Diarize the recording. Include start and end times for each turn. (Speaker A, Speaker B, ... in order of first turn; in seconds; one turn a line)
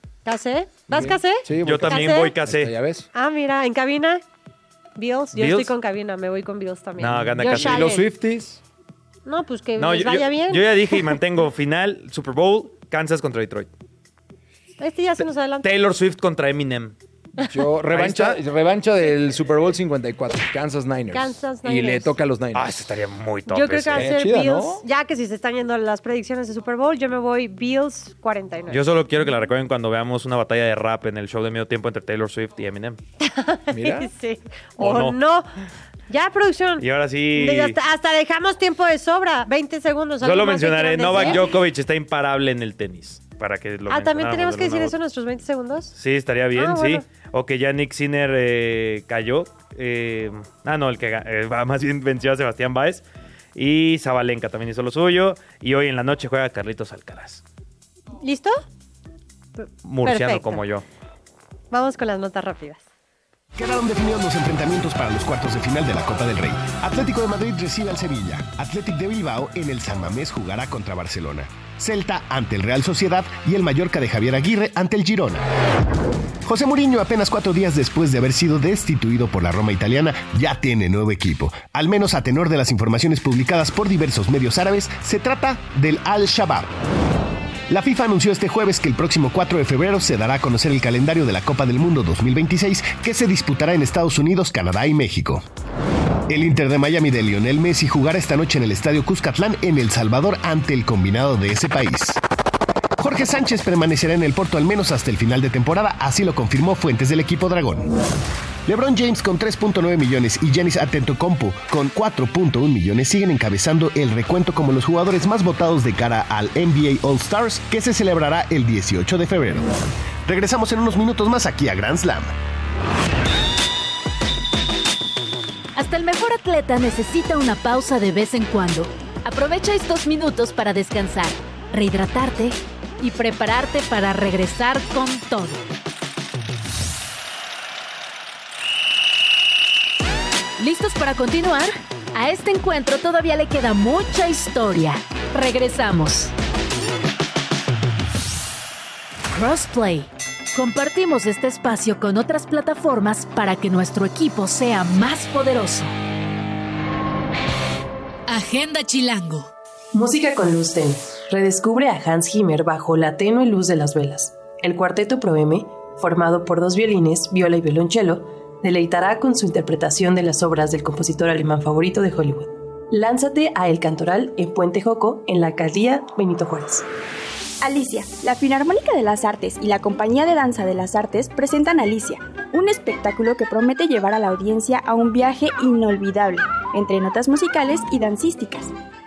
Speaker A: 0.2-2.3
Speaker B: 0.9-3.1
Speaker C: 1.6-2.7
Speaker A: 3.1-4.2
Speaker A: 5.0-8.1
Speaker C: 5.3-5.7
Speaker C: 7.0-7.9
Speaker B: 7.4-8.6
Speaker A: 9.2-11.1
Speaker C: 9.8-13.7
Speaker A: 14.8-15.7
Speaker C: 15.6-16.9
Speaker B: 17.4-22.8
Speaker C: 17.9-18.4
Speaker A: 21.1-22.1
Speaker C: 22.5-24.1
Speaker A: 23.5-28.8
Speaker B: 23.9-24.8
Speaker C: 28.7-33.0
Speaker A: 33.2-35.5
Speaker B: 33.7-34.1
Speaker C: 34.8-35.2
Speaker A: 36.1-41.5
Speaker C: 36.8-37.8
Speaker C: 40.2-45.0
Speaker A: 43.9-45.9
Speaker C: 46.0-53.0
Speaker A: 46.5-47.0
Speaker C: 53.5-57.4
Speaker A: 58.2-58.6
Speaker A: 59.6-60.6
Speaker C: 59.8-60.8
Speaker A: 61.7-62.8
Speaker D: 63.5-75.4
Speaker D: 76.4-86.7
Speaker D: 87.7-95.4
Speaker D: 96.3-102.2
Speaker D: 103.0-107.9
Speaker D: 108.7-119.7
Speaker D: 120.2-122.3
Speaker E: 125.8-135.6
Speaker E: 140.6-146.3
Speaker E: 149.3-155.9
Speaker E: 158.3-159.4
Speaker F: 159.9-176.8
Speaker G: 177.6-188.7